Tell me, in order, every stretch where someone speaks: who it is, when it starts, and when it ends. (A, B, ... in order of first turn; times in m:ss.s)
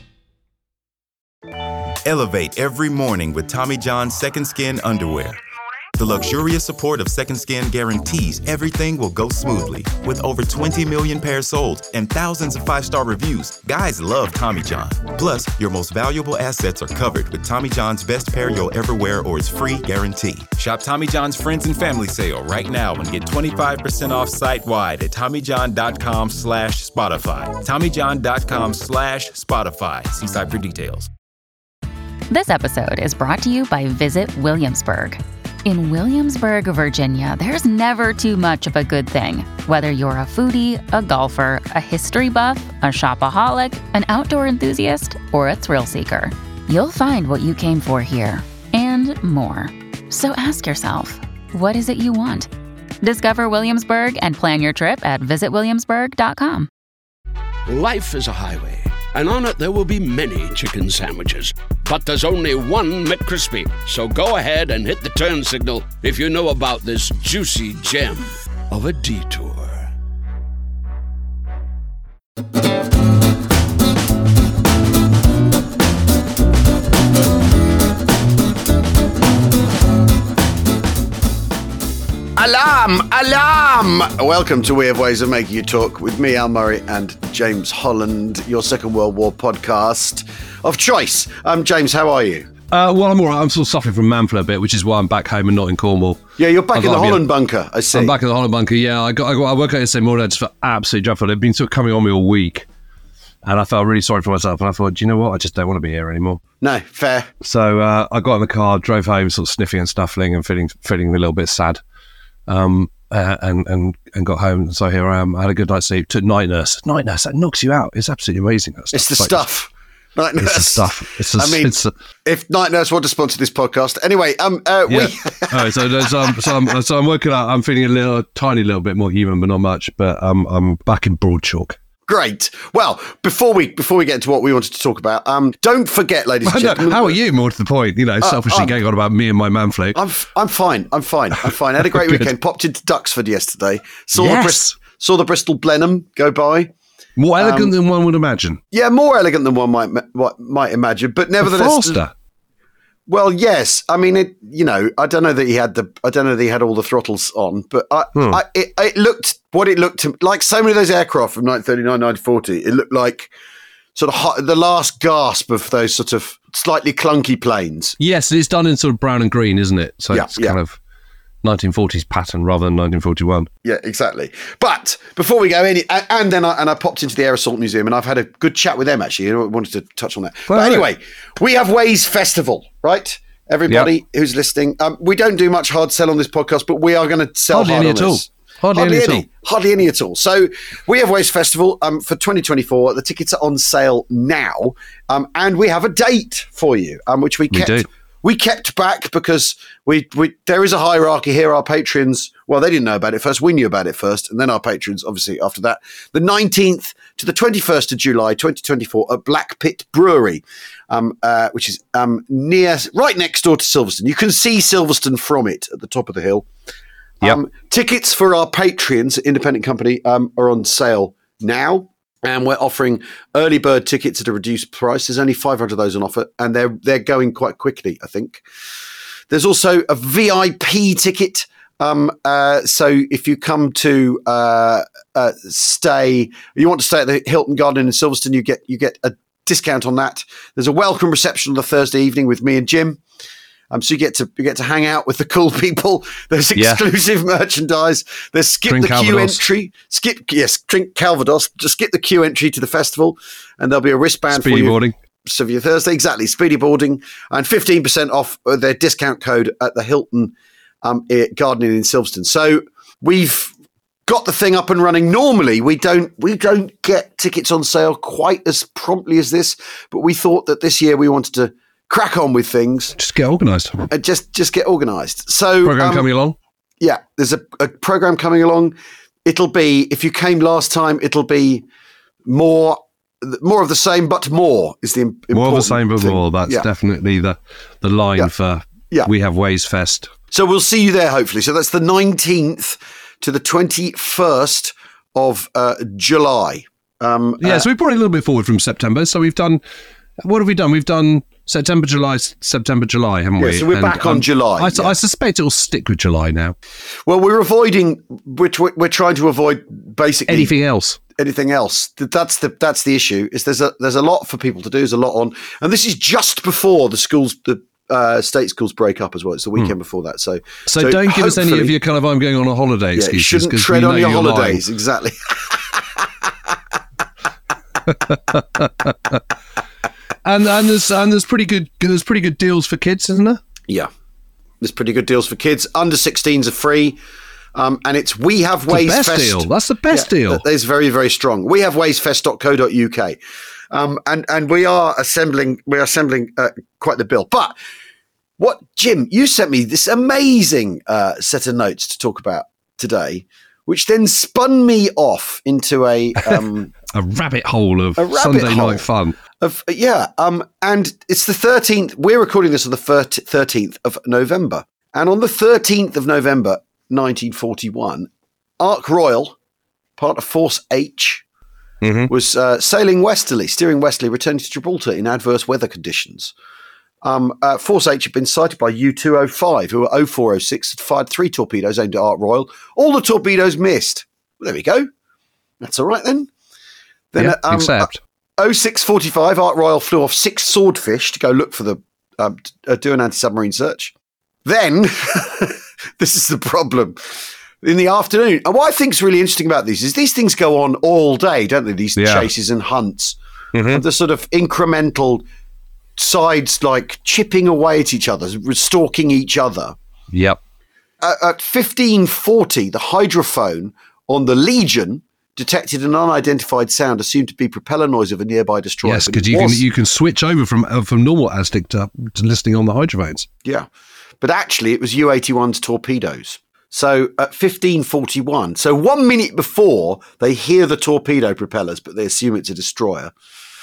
0:02.0-0:05.4 A
0:06.0-0:31.1 A
0:32.3-0:52.5 B
0:53.0-0:56.7 B
0:57.7-1:09.9 C
1:22.4-1:32.5 D
1:32.7-1:37.3 E
1:36.4-1:38.2 D
1:37.9-1:42.7 E
1:43.4-1:46.4 E
1:46.6-1:47.3 D
1:47.4-1:51.8 E
1:52.5-1:59.4 E
1:58.9-2:01.7 D
2:00.4-2:01.9 E
2:02.2-2:06.7 D
2:04.9-2:11.8 E
2:12.1-2:17.2 D
2:16.4-2:20.0 E
2:18.2-2:18.8 D
2:19.9-2:26.7 D
2:21.8-2:22.3 E
2:24.2-2:24.8 E
2:27.2-2:28.6 E
2:27.4-2:27.7 D
2:28.7-2:32.0 D
2:31.4-2:32.1 E
2:33.1-2:43.3 D
2:38.2-2:38.4 E
2:44.0-2:48.0 D
2:48.0-2:50.8 E
2:50.1-2:50.6 D
2:51.4-2:53.5 E
2:53.6-3:36.5 D
3:00.5-3:00.9 E
3:07.5-3:09.3 E
3:17.5-3:17.9 E
3:37.2-3:48.4 D
3:49.3-4:03.0 D
4:03.7-4:23.5 D
4:06.6-4:06.8 E
4:08.7-4:09.4 E
4:14.3-4:15.0 E
4:24.1-4:33.0 D
4:33.0-4:33.9 E
4:33.9-4:36.1 D
4:35.6-4:36.4 E
4:36.8-4:41.6 D
4:42.2-4:46.7 D
4:45.3-4:50.1 E
4:50.3-4:57.7 D
4:57.4-4:59.6 E
5:00.2-5:06.6 E
5:03.4-5:05.0 D
5:07.1-5:10.5 D
5:10.3-5:11.0 E
5:11.2-5:21.7 D
5:20.7-5:24.6 E
5:23.0-5:26.0 D
5:28.1-5:29.2 E
5:30.2-5:33.4 E
5:34.6-5:37.0 D
5:37.6-5:43.2 D
5:38.7-5:40.4 E
5:43.7-5:47.6 D
5:48.4-5:56.7 D
5:56.9-5:59.2 E
5:58.0-5:58.8 D
5:59.4-6:08.1 D
6:08.6-6:09.4 D
6:10.0-6:11.2 D
6:11.8-6:12.1 E
6:12.1-6:16.3 D
6:17.0-6:24.9 D
6:25.6-6:26.3 D
6:27.1-6:33.9 D
6:27.2-6:28.0 E
6:34.4-6:45.2 D
6:42.0-6:42.3 E
6:43.5-6:43.8 E
6:46.0-6:49.8 D
6:50.1-6:50.4 E
6:51.0-6:59.6 D
6:58.8-7:03.3 E
7:04.2-7:13.1 D